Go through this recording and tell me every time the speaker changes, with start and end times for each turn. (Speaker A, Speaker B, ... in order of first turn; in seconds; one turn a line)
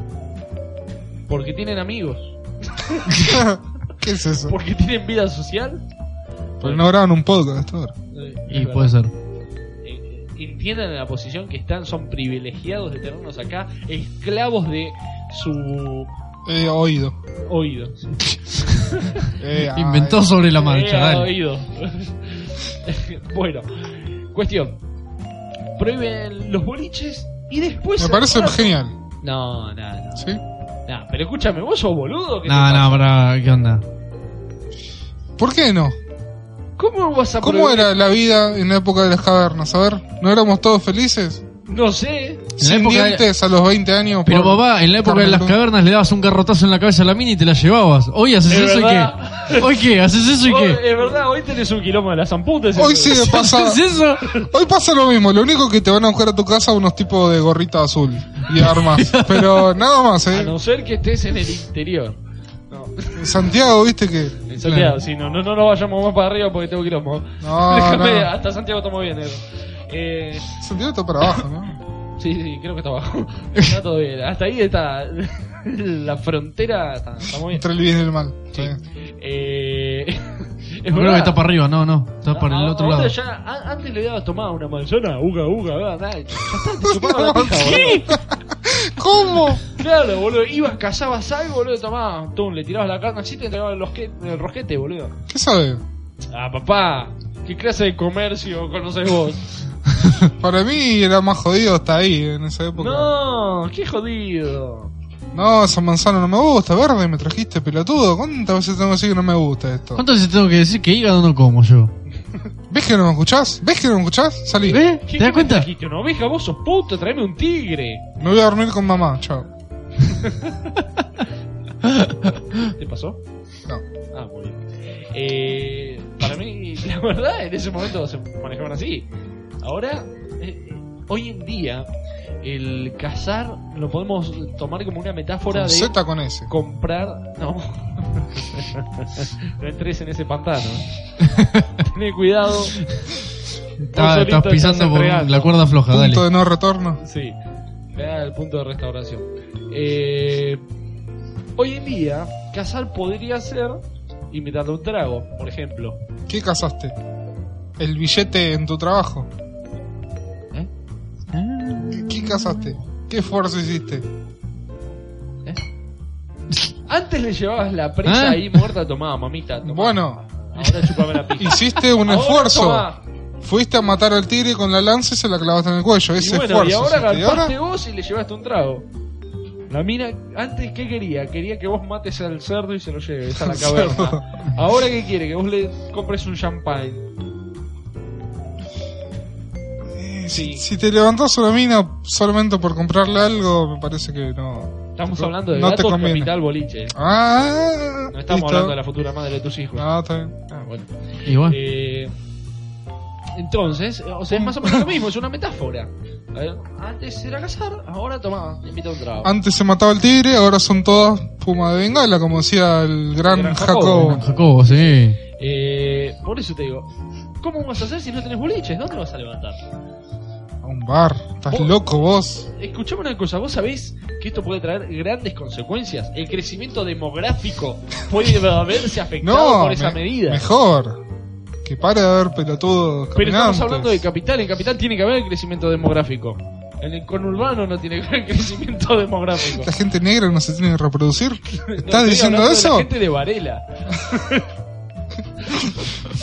Speaker A: 1.3-3.5
Speaker B: 3.2-4.5
Speaker A: 4.4-5.8
Speaker B: 6.6-7.9
Speaker A: 6.6-6.9
Speaker A: 8.1-9.0
Speaker C: 8.5-9.1
Speaker A: 9.8-16.1
Speaker B: 16.4-17.2
Speaker A: 17.4-19.3
Speaker B: 19.4-20.3
Speaker C: 19.7-21.3
Speaker A: 20.6-24.8
Speaker A: 25.8-30.3
Speaker B: 28.0-28.9
Speaker A: 30.9-33.1
Speaker C: 32.5-33.8
Speaker B: 35.4-36.0
Speaker A: 36.8-37.9
Speaker B: 37.4-41.4
Speaker A: 41.6-42.5
Speaker B: 42.6-45.5
Speaker C: 42.6-43.3
Speaker C: 44.2-50.8
Speaker A: 48.5-49.8
Speaker A: 50.4-53.4
Speaker B: 52.8-53.8
Speaker C: 53.1-54.4
Speaker B: 54.4-60.5
Speaker C: 58.5-59.7
Speaker A: 60.3-62.2
Speaker A: 62.7-63.5
Speaker B: 63.1-64.3
Speaker A: 64.5-70.6
Speaker C: 64.6-65.0
Speaker B: 67.4-68.3
Speaker B: 70.6-71.8
Speaker A: 72.2-77.6
Speaker B: 77.5-78.8
Speaker A: 78.5-81.4
Speaker C: 80.9-83.1
Speaker A: 82.3-88.0
Speaker B: 86.6-89.6
Speaker C: 87.5-88.1
Speaker A: 89.7-95.2
Speaker B: 95.3-95.8
Speaker A: 96.3-99.5
Speaker B: 100.2-103.1
Speaker A: 102.7-104.9
Speaker B: 105.3-110.0
Speaker C: 110.0-111.9
Speaker B: 112.7-114.8
Speaker C: 114.7-115.7
Speaker A: 115.0-118.0
Speaker B: 118.2-119.5
Speaker A: 120.1-120.7
Speaker A: 122.7-123.2
Speaker A: 124.1-129.1
Speaker A: 129.6-131.9
Speaker A: 132.4-135.9
Speaker B: 135.5-136.5
Speaker A: 136.5-140.8
Speaker C: 141.3-141.7
Speaker A: 141.8-142.8
Speaker C: 143.8-146.2
Speaker A: 143.9-145.6
Speaker B: 145.9-147.0
Speaker A: 147.0-147.3
Speaker A: 147.9-150.6
Speaker A: 151.6-156.0
Speaker B: 156.3-156.9
Speaker B: 157.8-159.3
Speaker C: 161.3-162.7
Speaker B: 161.9-164.1
Speaker A: 166.9-173.0
Speaker C: 168.1-168.6
Speaker B: 169.7-170.2
Speaker B: 171.4-172.9
Speaker B: 173.4-177.5
Speaker A: 176.2-178.8
Speaker A: 179.7-187.1
Speaker B: 183.4-184.2
Speaker B: 189.9-196.3
Speaker A: 190.3-190.6
Speaker A: 195.0-196.9
Speaker B: 196.9-198.8
Speaker A: 198.1-199.9
Speaker B: 199.8-200.3
Speaker A: 200.5-202.1
Speaker C: 201.2-201.6
Speaker A: 203.3-209.3
Speaker B: 204.3-204.8
Speaker B: 209.2-214.2
Speaker A: 213.2-216.9
Speaker C: 214.0-215.2
Speaker A: 217.4-219.6
Speaker B: 220.6-222.5
Speaker A: 221.5-221.7
Speaker A: 222.5-230.4
Speaker B: 229.2-231.0
Speaker B: 231.6-234.0
Speaker A: 233.1-239.7
Speaker B: 239.5-242.9
Speaker A: 241.5-244.5